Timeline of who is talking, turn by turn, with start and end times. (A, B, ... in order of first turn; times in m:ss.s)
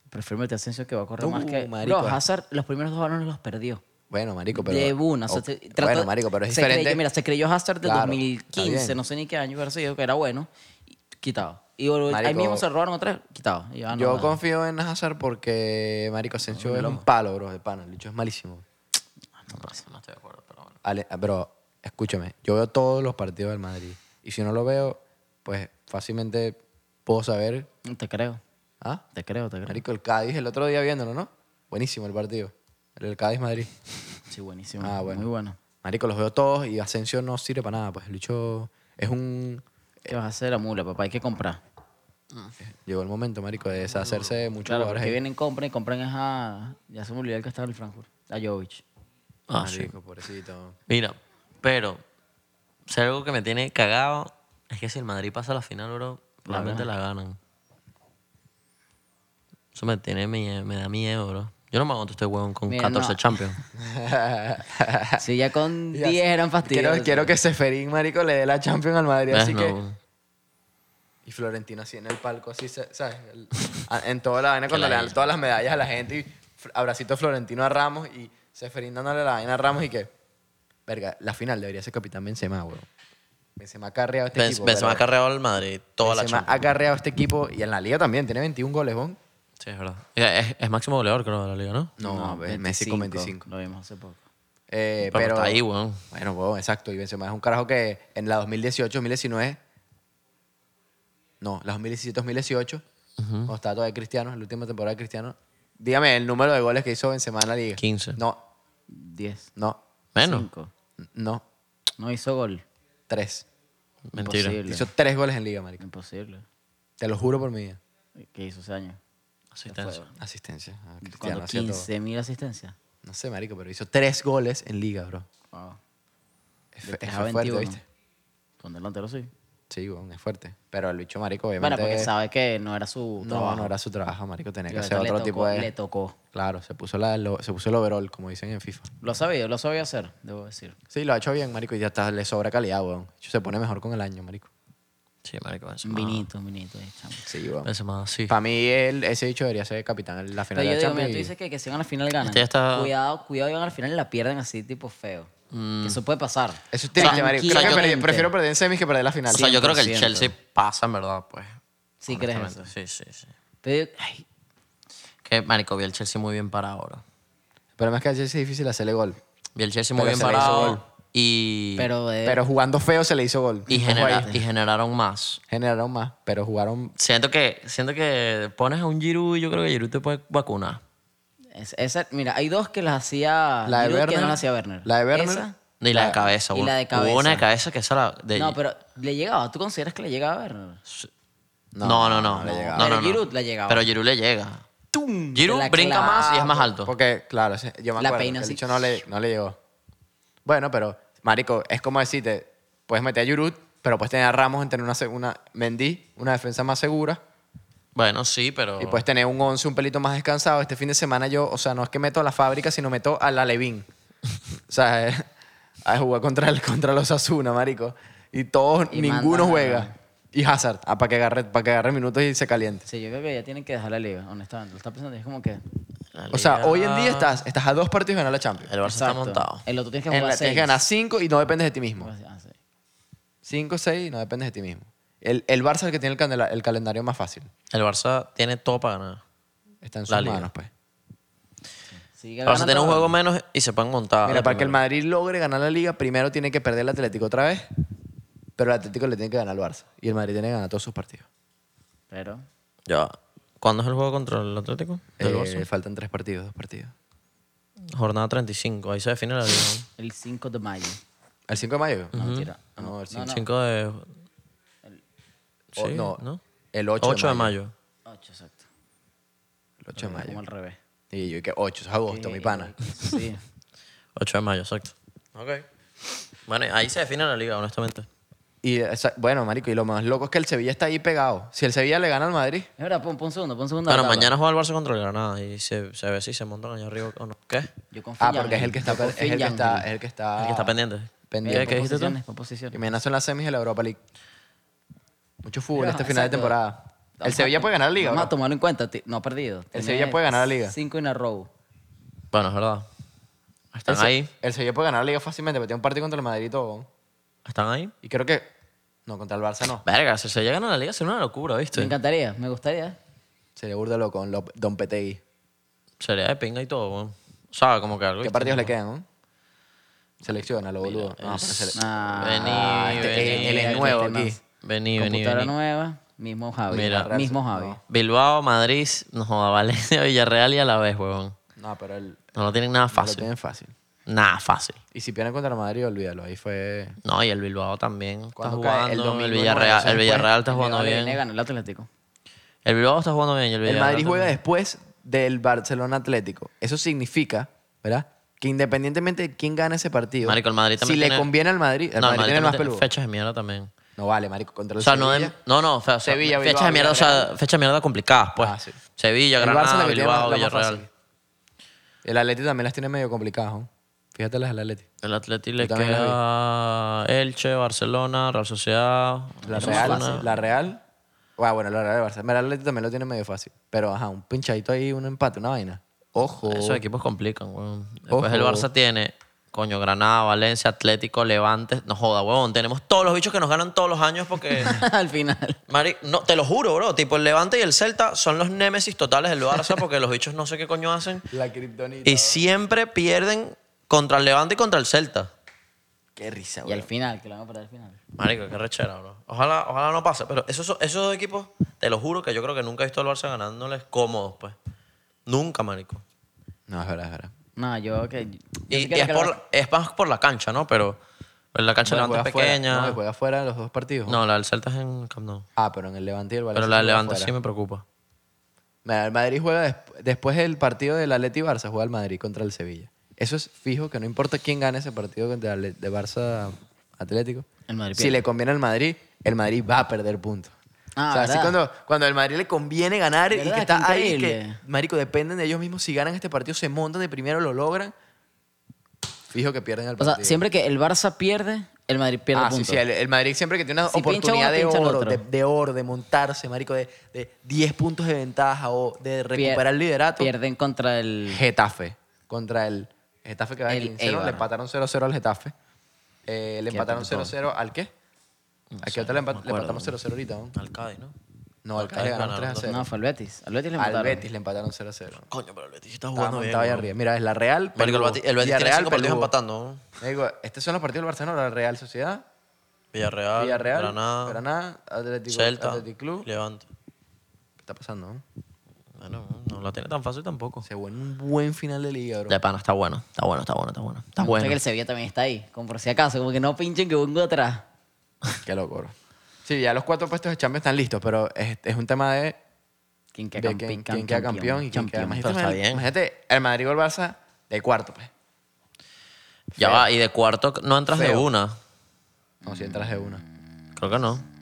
0:00.1-0:03.8 A
0:01.2-0:02.2 B
0:04.1-0:07.0 B
0:04.5-0:10.5 A
0:07.8-0:09.0 B
0:11.1-0:14.4 A
0:12.1-0:12.6 B
0:13.9-0:18.6 B
0:16.5-0:17.0 A
0:19.4-0:19.8 A
0:19.6-0:20.8 C
0:20.8-0:27.7 B
0:27.8-0:28.4 A
0:29.1-0:29.8 A
0:29.7-0:33.7 B
0:34.3-0:35.6 A
0:34.8-0:35.2 B
0:35.8-0:40.1 B
0:40.1-0:41.6 A
0:42.8-0:45.2 B
0:44.6-0:48.8 A
0:49.5-0:49.9 C
0:49.6-0:50.8 B
0:50.9-0:52.0 C
0:52.9-0:57.4 C
0:56.4-0:56.9 A
0:59.7-1:03.6 C
1:02.7-1:03.4 A
1:03.7-1:05.2 B
1:05.2-1:07.3 A
1:05.9-1:09.8 B
1:09.3-1:10.0 C
1:11.2-1:20.1 B
1:14.7-1:15.1 C
1:20.9-1:22.9 B
1:23.6-1:25.0 B
1:24.3-1:26.6 C
1:26.0-1:29.2 B
1:29.6-1:31.9 C
1:32.0-1:33.4 B
1:32.0-1:34.2 A
1:34.7-1:39.6 B
1:35.1-1:36.0 C
1:41.4-1:42.8 B
1:43.2-1:43.5 C
1:43.5-1:48.4 B
1:47.8-1:48.2 C
1:48.9-1:49.5 A
1:50.1-1:50.5 C
1:50.2-1:50.7 A
1:51.0-1:51.4 B
1:52.0-1:52.6 A
1:53.1-1:53.4 B
1:54.1-1:54.6 C
1:54.2-1:54.9 A
1:54.7-1:55.8 B
1:55.8-1:56.4 A
1:57.0-1:57.8 B
1:58.2-1:59.0 A
1:59.5-2:00.0 C
1:59.7-2:00.1 A
2:00.2-2:01.9 B
2:01.0-2:02.8 A
2:03.0-2:05.2 B
2:05.5-2:05.8 A
2:06.7-2:07.8 B
2:06.8-2:07.8 A
2:08.6-2:09.3 A
2:09.7-2:12.1 B
2:11.6-2:13.7 A
2:13.2-2:15.7 B
2:14.7-2:16.2 A
2:16.3-2:18.9 B
2:19.0-2:20.8 A
2:20.9-2:24.5 B
2:25.2-2:26.2 C
2:25.8-2:27.3 A
2:27.2-2:27.7 B
2:27.6-2:28.3 C
2:28.3-2:31.3 B
2:30.5-2:35.3 A
2:32.2-2:32.9 C
2:35.5-2:36.0 C
2:35.8-2:38.3 A
2:36.7-2:39.6 B
2:37.0-2:37.9 C
2:39.3-2:40.3 A
2:39.3-2:43.3 C
2:42.0-2:42.7 A
2:43.6-2:44.2 A
2:45.2-2:47.0 C
2:47.8-2:49.2 B
2:49.6-2:51.9 C
2:49.9-2:50.8 B
2:51.8-2:52.4 A
2:52.2-2:54.4 B
2:53.7-2:54.4 A
2:53.7-2:55.4 C
2:55.5-2:56.9 B
2:57.0-3:00.8 C
3:01.5-3:05.6 A
3:03.6-3:06.3 B
3:05.8-3:08.6 C
3:06.5-3:07.4 A
3:08.3-3:10.8 A
3:11.7-3:12.9 B
3:11.8-3:14.6 C
3:12.7-3:13.9 A
3:14.9-3:16.5 A
3:15.3-3:16.9 C
3:16.0-3:19.6 B
3:18.0-3:18.8 A
3:20.4-3:27.2 B
3:27.9-3:29.0 C
3:28.8-3:33.9 B
3:34.5-3:35.3 B
3:35.8-3:42.8 B
3:38.9-3:39.9 A
3:42.8-3:45.6 A
3:46.1-3:47.4 C
3:46.3-3:48.7 B
3:48.7-3:49.6 C
3:48.8-3:50.8 A
3:50.1-3:52.1 B
3:52.0-3:52.6 A
3:53.4-3:57.5 B
3:57.7-3:59.2 C
3:59.8-4:00.7 B
4:00.1-4:00.5 C
4:02.0-4:03.1 A
4:02.4-4:04.8 C
4:04.2-4:07.6 B
4:08.6-4:11.3 B
4:12.1-4:12.4 A
4:12.9-4:15.6 C
4:15.2-4:16.9 B
4:17.9-4:19.9 C
4:20.0-4:21.0 A
4:21.5-4:22.2 B
4:22.1-4:22.5 C
4:22.1-4:23.4 A
4:22.8-4:23.3 B
4:23.1-4:24.1 C
4:25.8-4:26.4 C
4:25.8-4:26.2 B
4:26.7-4:27.5 B
4:27.0-4:27.7 C
4:28.0-4:28.7 A
4:29.8-4:30.4 B
4:30.0-4:30.8 A
4:31.1-4:32.7 B
4:32.1-4:33.4 A
4:34.2-4:35.6 C
4:36.4-4:38.1 C
4:38.6-4:42.7 B
4:42.8-4:44.3 A
4:43.9-4:47.7 C
4:47.9-4:49.9 A
4:48.2-4:50.7 B
4:50.4-4:52.2 C
4:51.3-4:51.8 B
4:51.4-4:52.8 A
4:52.7-4:54.0 B
4:55.4-4:58.3 B
4:55.8-4:56.6 A
4:57.2-5:01.5 A
4:59.7-5:00.7 B
5:02.3-5:02.8 C
5:03.7-5:04.3 C
5:04.4-5:06.9 B
5:07.4-5:07.9 C
5:08.0-5:08.5 B
5:09.0-5:09.8 B
5:09.8-5:11.9 C
5:11.7-5:13.0 A
5:13.6-5:15.2 B
5:16.0-5:18.7 C
5:18.2-5:19.1 B
5:20.2-5:21.8 B
5:20.8-5:25.5 C
5:21.7-5:24.4 A
5:22.4-5:24.4 B
5:25.0-5:27.8 A
5:26.7-5:27.1 C
5:26.8-5:27.8 B
5:27.9-5:31.3 C
5:31.6-5:32.3 B
5:32.4-5:33.3 C
5:32.9-5:33.7 B
5:34.1-5:34.8 C
5:34.9-5:37.0 B
5:37.0-5:41.2 C
5:38.4-5:40.3 B
5:40.4-5:41.9 A
5:42.6-5:44.4 C
5:43.6-5:52.9 B
5:50.2-5:51.3 C
5:52.0-5:53.7 C
5:54.0-5:55.3 B
5:54.8-6:00.8 C
5:56.0-5:57.3 B
5:58.4-5:58.8 B
5:59.4-6:00.9 B
6:02.0-6:04.9 B
6:05.0-6:10.4 C
6:05.6-6:06.2 B
6:09.4-6:10.2 A
6:09.5-6:10.8 B
6:11.4-6:16.8 B
6:16.4-6:24.8 C
6:18.1-6:18.7 B
6:24.5-6:25.6 A
6:25.7-6:31.3 C
6:31.3-6:32.4 B
6:32.0-6:35.3 C
6:36.2-6:36.9 B
6:36.6-6:38.0 A
6:38.2-6:44.5 C
6:45.3-6:46.0 C
6:46.7-6:47.3 B
6:47.6-6:49.4 A
6:48.7-6:51.0 C
6:51.5-6:53.0 C
6:51.8-6:54.2 B
6:54.1-6:55.4 C
6:55.6-6:57.3 B
6:56.5-6:57.8 C
6:58.8-7:10.5 B
7:07.7-7:08.2 A
7:11.0-7:11.6 A
7:11.1-7:17.9 B
7:13.3-7:14.6 A
7:19.3-7:20.4 B
7:20.0-7:22.8 A
7:22.3-7:30.3 B
7:23.9-7:25.2 A
7:29.3-7:29.6 A
7:30.2-7:31.4 A
7:31.3-7:35.5 B
7:33.7-7:34.5 A
7:36.3-7:37.9 B
7:36.7-7:37.3 A
7:38.7-7:40.0 C
7:38.8-7:40.5 B
7:40.5-7:41.2 C
7:41.6-7:42.8 B
7:41.8-7:42.7 C
7:42.6-7:44.3 A
7:43.8-7:45.2 B
7:45.3-7:46.9 C
7:46.1-7:49.3 B
7:47.8-7:49.8 C
7:50.0-7:52.2 B
7:52.9-7:54.4 C
7:53.4-7:56.3 B
7:55.3-7:56.6 C
7:57.6-7:58.2 B
7:59.0-8:00.6 C
8:00.6-8:02.4 B
8:02.3-8:04.6 C
8:04.2-8:07.6 A
8:08.4-8:08.9 B
8:09.4-8:12.4 B
8:13.1-8:15.3 A
8:13.4-8:18.1 B
8:15.2-8:15.9 C
8:19.6-8:19.9 B
8:19.6-8:21.6 C
8:20.9-8:21.3 B
8:22.4-8:23.2 B
8:23.8-8:24.2 C